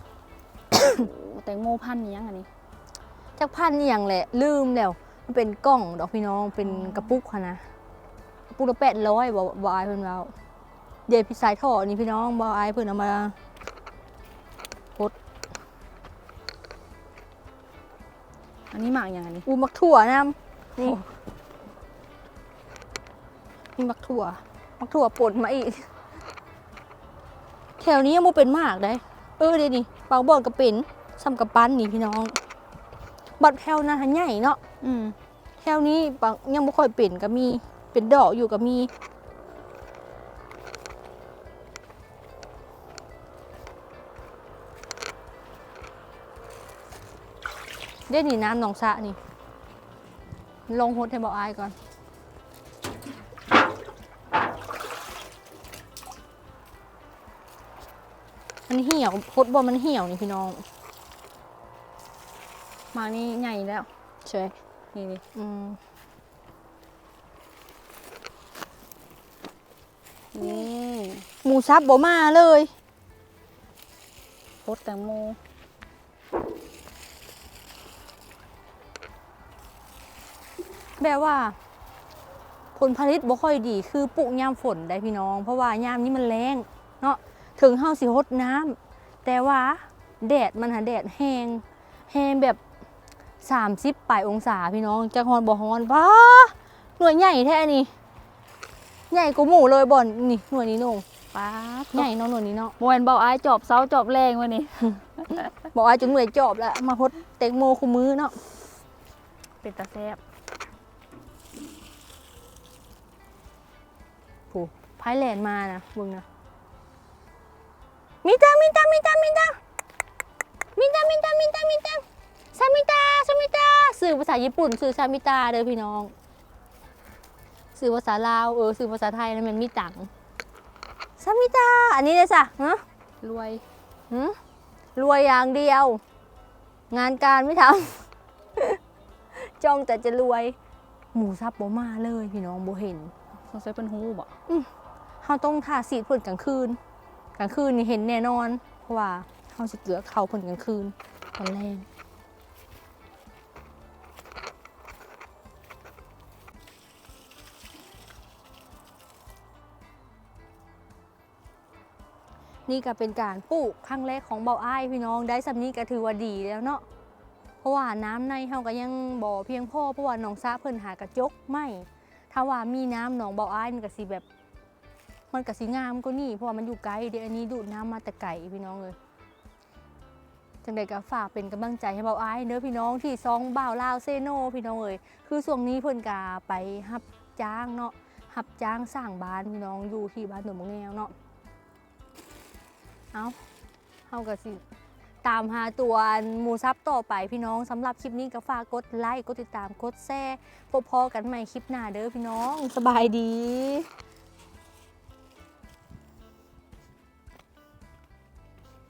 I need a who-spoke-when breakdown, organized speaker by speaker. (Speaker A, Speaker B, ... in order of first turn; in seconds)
Speaker A: 0.8-2.5, 6.6-7.2, 18.7-19.5, 34.8-35.2, 62.9-63.9, 64.9-65.2, 70.3-71.3, 74.6-75.4, 101.3-102.1, 102.8-105.5, 109.6-110.2, 133.2-133.6, 143.3-144.3
Speaker B: 3.4-7.7, 8.5-10.3, 11.1-13.4, 19.4-21.0, 23.8-25.9, 27.8-32.4, 33.4-34.6, 35.6-38.9, 48.1-49.2, 50.7-51.8, 58.7-60.6, 64.2-64.5, 65.3-65.8, 71.4-72.7, 81.0-81.6, 82.8-92.6, 93.4-97.9, 99.1-101.0, 101.9-102.8, 105.7-108.4, 114.5-116.2, 118.2-119.6, 120.8-126.1, 127.8-130.1, 131.2-132.8, 134.1-134.4, 134.9-136.0, 136.9-138.8, 139.3-140.6, 141.1-143.1, 145.2-146.8, 147.4-151.9, 162.7-166.8, 167.6-174.2, 175.3-179.0, 180.6-191.1, 193.1-193.4, 194.1-194.6, 195.2-203.9